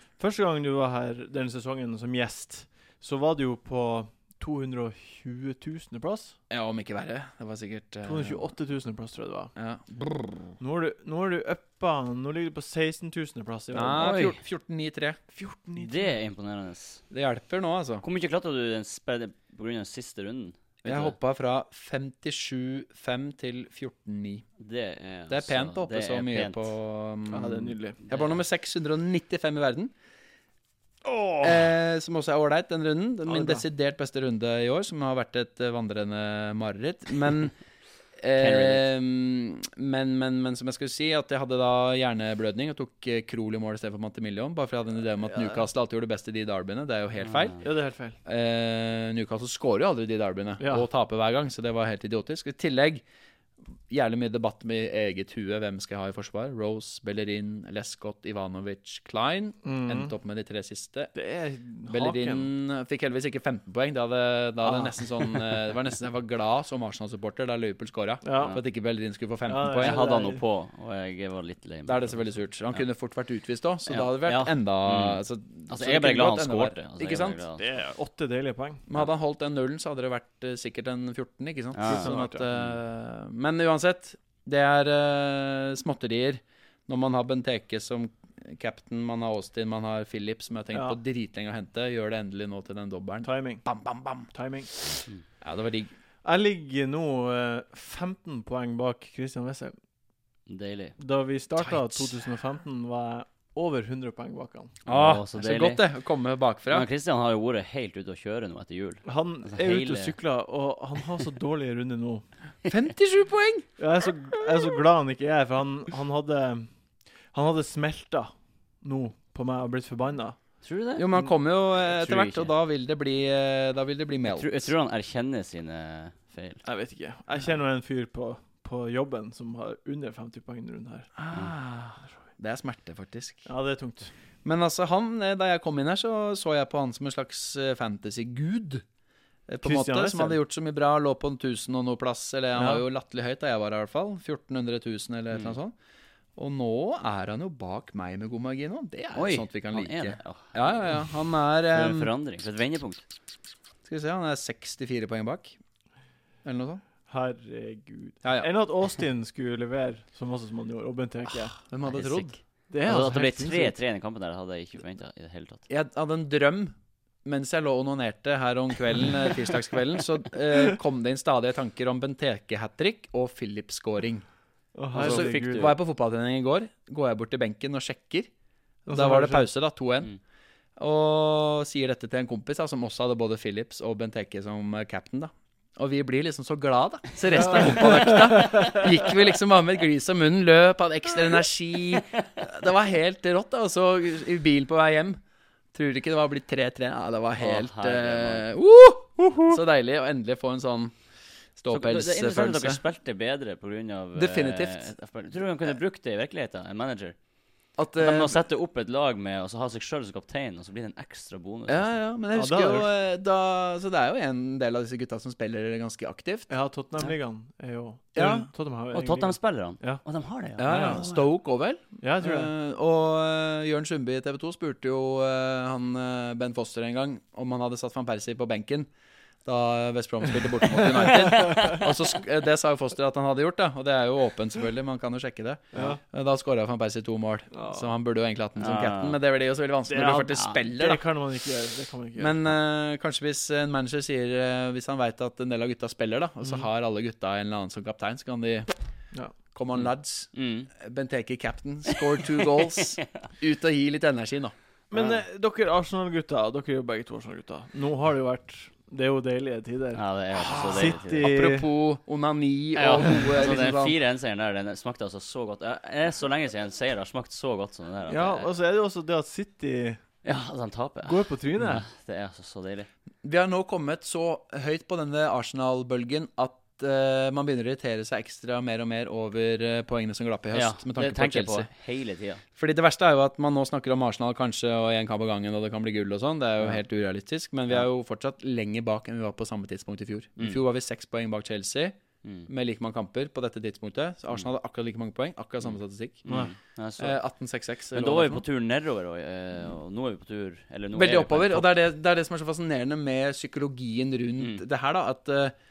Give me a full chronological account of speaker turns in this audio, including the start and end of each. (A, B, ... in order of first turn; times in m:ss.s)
0:00.2-0:06.4 A
0:06.5-0:08.5 B
0:08.0-0:09.5 A
0:09.6-0:10.4 B
0:10.6-0:14.1 A
0:13.7-0:15.2 B
0:14.0-0:14.4 C
0:15.3-0:16.1 A
0:15.8-0:17.0 C
0:17.1-0:18.0 B
0:18.0-0:21.2 C
0:20.8-0:24.4 B
0:24.6-0:26.7 C
0:25.3-0:29.9 B
0:27.3-0:28.0 A
0:31.0-0:31.7 A
0:31.4-0:37.6 B
0:33.3-0:33.6 A
0:38.2-0:47.6 B
0:38.4-0:38.9 C
0:45.3-0:45.6 A
0:47.2-0:47.6 C
0:47.6-0:48.2 A
0:48.2-0:53.0 B
0:50.6-0:50.9 A
0:53.9-1:01.1 B
0:59.6-1:00.1 A
1:01.1-1:02.5 A
1:01.9-1:10.1 B
1:04.6-1:05.3 A
1:08.2-1:08.6 A
1:08.4-1:08.6 C
1:09.5-1:10.4 A
1:09.7-1:12.8 C
1:11.8-1:17.4 B
1:13.9-1:17.6 C
1:17.6-1:18.8 A
1:18.9-1:35.9 B
1:21.8-1:22.8 C
1:21.8-1:22.5 A
1:30.7-1:31.0 A
1:33.2-1:33.7 A
1:34.3-1:34.7 A
1:36.2-1:39.8 A
1:40.5-1:41.0 C
1:41.0-1:44.8 A
1:41.6-1:42.1 B
1:44.9-1:46.9 B
1:44.9-1:45.8 C
1:46.7-1:50.2 C
1:49.0-1:52.2 A
1:52.7-1:53.7 B
1:53.8-1:56.7 A
1:57.3-2:00.4 A
2:00.6-2:01.3 C
2:01.0-2:04.7 B
2:01.9-2:02.5 C
2:04.3-2:06.6 C
2:06.6-2:11.1 A
2:11.2-2:13.5 B
2:13.5-2:14.1 A
2:14.4-2:18.8 B
2:19.5-2:25.7 B
2:19.6-2:20.4 A
2:22.6-2:22.8 A
2:26.4-2:32.1 B
2:29.2-2:31.0 C
2:31.7-2:33.0 C
2:33.8-2:35.6 B
2:36.4-2:36.8 B
2:37.1-2:41.6 A
2:38.2-2:38.5 B
2:41.7-2:42.4 B
2:41.9-2:45.6 C
2:42.7-2:43.7 A
2:45.7-2:54.2 B
2:54.7-2:55.8 A
2:54.9-2:55.8 C
2:54.9-2:58.3 B
2:58.9-2:59.5 A
2:58.9-3:00.1 B
3:00.8-3:15.2 B
3:07.3-3:08.8 A
3:15.7-3:21.0 B
3:17.4-3:18.5 C
3:21.6-3:22.8 B
3:21.7-3:27.2 C
3:24.2-3:24.9 B
3:27.8-3:28.4 B
3:28.0-3:32.0 C
3:31.7-3:36.5 B
3:32.4-3:32.9 A
3:36.5-3:40.0 A
3:38.2-3:38.5 B
3:38.9-3:41.3 C
3:40.6-3:48.9 B
3:40.6-3:41.1 A
3:42.0-3:42.5 A
3:49.4-4:01.0 B
3:51.3-3:51.8 C
3:55.7-3:56.0 A
3:57.5-3:57.9 A
3:58.6-3:59.2 C
3:59.9-4:02.4 A
4:02.2-4:08.7 B
4:09.4-4:14.5 B
4:09.7-4:10.7 C
4:14.9-4:21.7 A
4:14.9-4:15.2 C
4:19.9-4:21.3 C
4:20.4-4:24.0 B
4:22.8-4:28.5 C
4:28.1-4:30.0 A
4:30.2-4:32.9 C
4:31.0-4:31.9 A
4:33.2-4:41.7 B
4:40.5-4:42.4 C
4:42.6-4:56.5 B
4:55.6-4:57.2 C
4:56.3-4:56.5 A
4:57.0-4:58.4 B
4:57.9-5:01.7 C
5:01.0-5:05.5 B